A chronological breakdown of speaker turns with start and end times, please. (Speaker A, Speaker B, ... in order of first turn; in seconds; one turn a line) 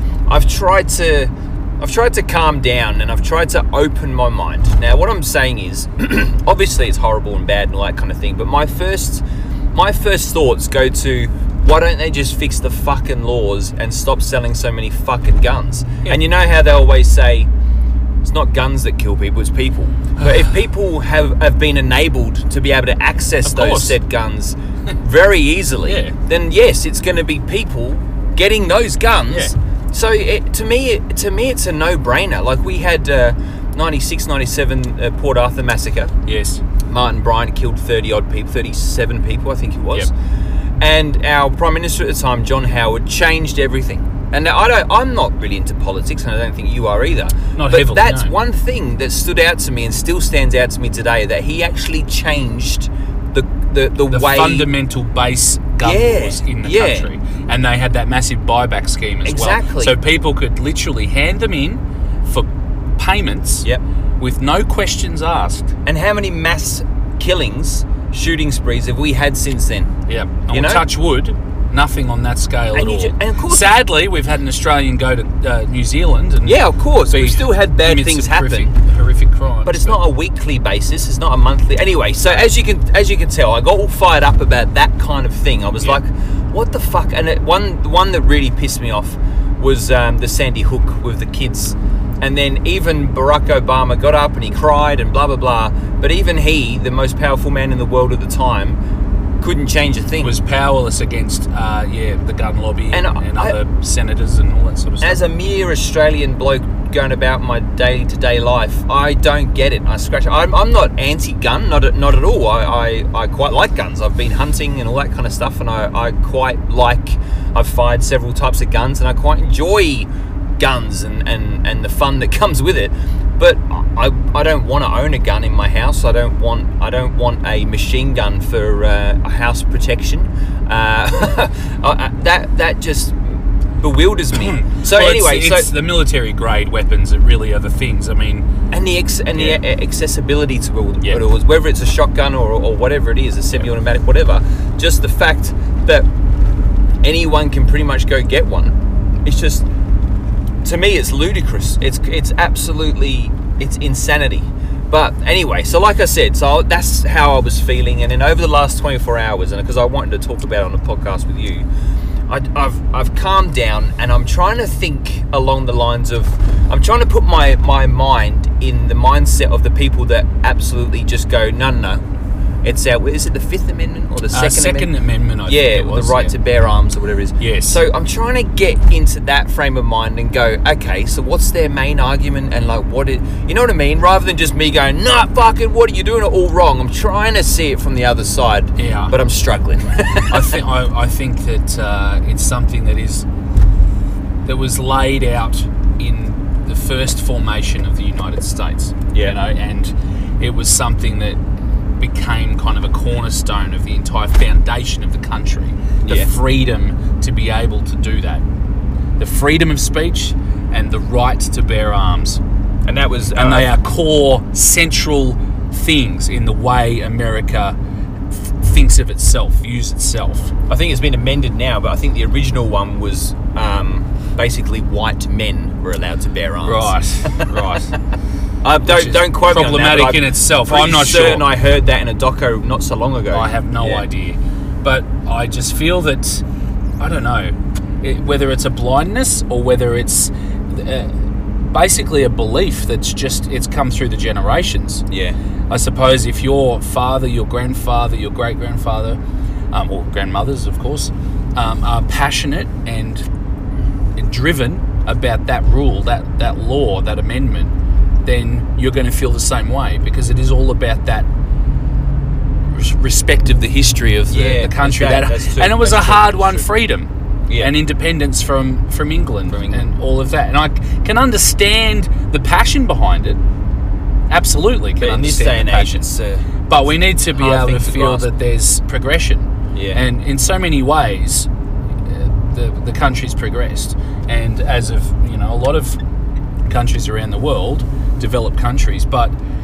Speaker A: 0.3-17.5
Speaker A: 18.2-36.1
Speaker B: 20.2-20.5
Speaker B: 23.4-24.0
Speaker B: 25.8-26.1
Speaker B: 36.2-36.6
Speaker A: 36.8-40.1
Speaker A: 40.8-54.7
Speaker B: 47.5-48.4
Speaker B: 54.1-63.7
Speaker A: 55.8-57.1
Speaker A: 59.2-60.0
Speaker B: 64.2-65.7
Speaker A: 65.8-69.9
Speaker B: 70.1-80.0
Speaker A: 70.5-70.8
Speaker A: 72.7-73.8
Speaker A: 76.4-78.8
Speaker A: 79.6-98.8
Speaker A: 99.4-100.4
Speaker B: 100.2-105.2
Speaker A: 102.9-103.6
Speaker A: 105.0-135.7
Speaker B: 134.3-138.5
Speaker A: 138.7-146.1
Speaker B: 139.3-139.6
Speaker A: 147.0-149.7
Speaker A: 150.6-161.7
Speaker A: 162.3-172.0
Speaker A: 172.6-190.6
Speaker B: 174.3-176.3
Speaker B: 177.4-177.8
Speaker B: 188.8-189.2
Speaker B: 190.3-193.2
Speaker B: 194.4-201.4
Speaker A: 199.1-199.4
Speaker B: 202.0-208.4
Speaker A: 206.0-206.3
Speaker B: 209.2-212.4
Speaker A: 212.8-213.7
Speaker B: 213.3-217.8
Speaker B: 218.3-220.5
Speaker A: 220.7-227.4
Speaker B: 226.6-227.9
Speaker A: 228.6-234.1
Speaker B: 228.8-231.5
Speaker B: 233.3-236.4
Speaker B: 237.0-245.0
Speaker A: 245.1-245.4
Speaker B: 245.7-249.2
Speaker B: 249.7-253.2
Speaker B: 254.2-257.7
Speaker B: 258.2-261.3
Speaker B: 262.6-273.4
Speaker A: 264.3-266.7
Speaker A: 267.5-267.7
Speaker A: 269.5-269.9
Speaker B: 274.3-276.1
Speaker A: 275.0-276.4
Speaker B: 276.7-281.5
Speaker A: 277.3-278.3
Speaker A: 279.7-280.0
Speaker B: 282.0-286.0
Speaker B: 286.7-289.4